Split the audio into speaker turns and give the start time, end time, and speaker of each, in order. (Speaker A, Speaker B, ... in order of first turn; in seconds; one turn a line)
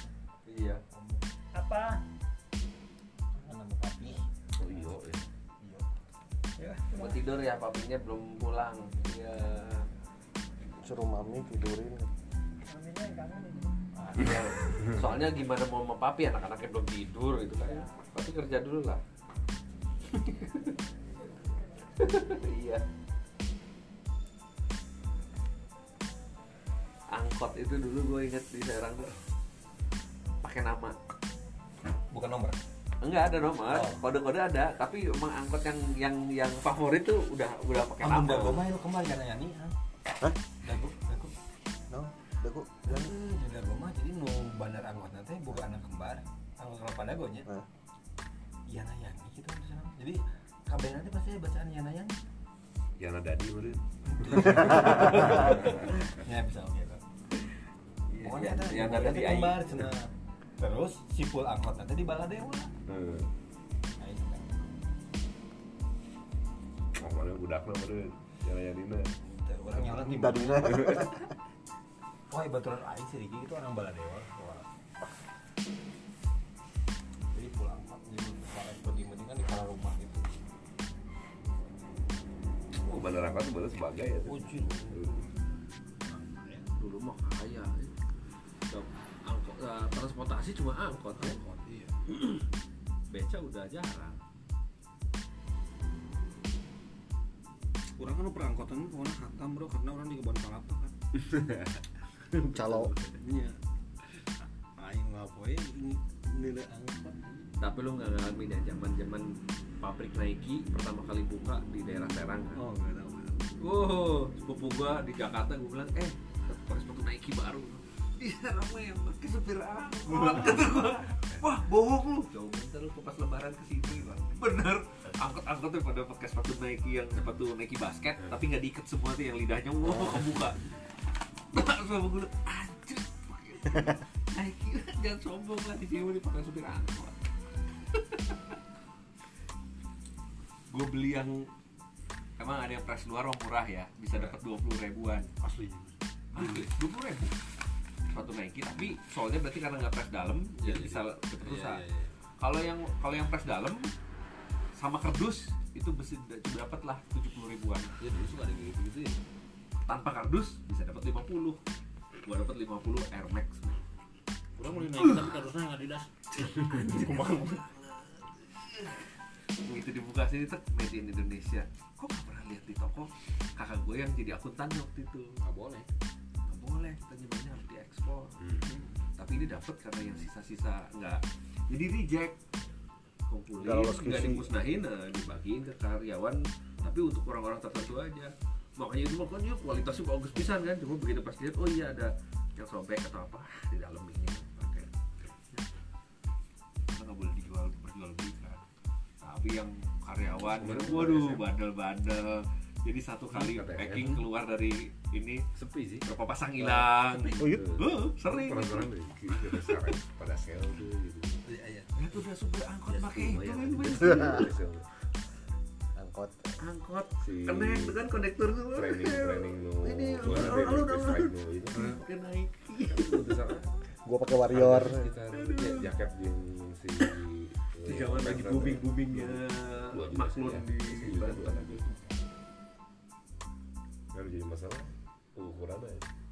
Speaker A: 0.5-0.8
Speaker B: 0.9-1.2
Speaker C: 1.5-2.0
Speaker B: 3.3-4.7
Speaker D: 4.6-5.2
Speaker B: 5.6-5.9
Speaker C: 6.6-7.2
Speaker A: 6.9-9.8
Speaker E: 10.8-12.1
Speaker C: 12.7-13.8
Speaker B: 14.0-14.5
Speaker A: 14.2-19.0
Speaker A: 20.1-20.7
Speaker A: 22.0-22.8
Speaker A: 27.1-29.1
Speaker A: 30.4-30.9
Speaker B: 32.1-32.6
Speaker A: 33.0-38.6
Speaker B: 33.7-34.0
Speaker B: 38.0-39.8
Speaker B: 40.6-41.3
Speaker E: 41.9-43.1
Speaker B: 42.9-47.5
Speaker B: 48.7-52.1
Speaker D: 53.0-55.8
Speaker B: 54.1-57.0
Speaker A: 58.1-59.7
Speaker B: 58.2-62.7
Speaker D: 62.9-63.3
Speaker B: 64.0-64.7
Speaker D: 67.0-69.2
Speaker B: 69.2-71.1
Speaker E: 69.8-71.3
Speaker D: 70.6-71.1
Speaker B: 72.3-74.7
Speaker B: 77.3-80.3
Speaker D: 82.7-85.3
Speaker B: 84.2-85.3
Speaker B: 86.0-86.7
Speaker A: 86.8-88.0
Speaker A: 88.7-91.5
Speaker B: 91.2-92.0
Speaker A: 93.1-94.2
Speaker B: 98.0-100.9
Speaker A: 102.5-103.1
Speaker E: 102.5-102.9
Speaker B: 103.0-103.6
Speaker B: 104.8-107.6
Speaker A: 107.6-109.3
Speaker A: 109.8-112.6
Speaker B: 112.5-113.5
Speaker A: 113.6-130.8
Speaker A: 131.5-137.2
Speaker A: 138.0-138.3
Speaker A: 140.7-141.5
Speaker A: 142.4-145.3
Speaker A: 146.3-147.3
Speaker A: 148.1-151.8
Speaker A: 152.4-153.9
Speaker A: 154.8-157.9
Speaker D: 158.1-158.5
Speaker B: 158.3-159.0
Speaker A: 159.8-161.6
Speaker A: 162.2-163.8
Speaker B: 164.6-166.1
Speaker A: 164.7-165.4
Speaker E: 165.3-165.9
Speaker A: 166.3-169.0
Speaker B: 166.8-167.6
Speaker A: 169.6-175.3
Speaker A: 176.5-178.4
Speaker D: 178.4-178.7
Speaker B: 178.7-179.0
Speaker A: 179.2-182.3
Speaker A: 183.3-194.9
Speaker E: 183.6-184.5
Speaker A: 196.9-198.6
Speaker A: 199.2-205.4
Speaker D: 200.2-201.5
Speaker D: 203.3-204.2
Speaker D: 205.5-206.1
Speaker A: 206.0-209.9
Speaker D: 207.3-211.4
Speaker B: 211.5-212.2
Speaker A: 212.0-214.5
Speaker D: 212.9-214.9
Speaker E: 214.0-214.4
Speaker E: 215.9-216.6
Speaker A: 216.6-223.5
Speaker D: 217.2-218.0
Speaker D: 218.7-222.0
Speaker D: 222.9-223.7
Speaker E: 224.0-225.1
Speaker D: 224.4-231.8
Speaker A: 225.3-225.9
Speaker A: 227.8-231.6
Speaker B: 231.5-232.1
Speaker D: 234.1-236.1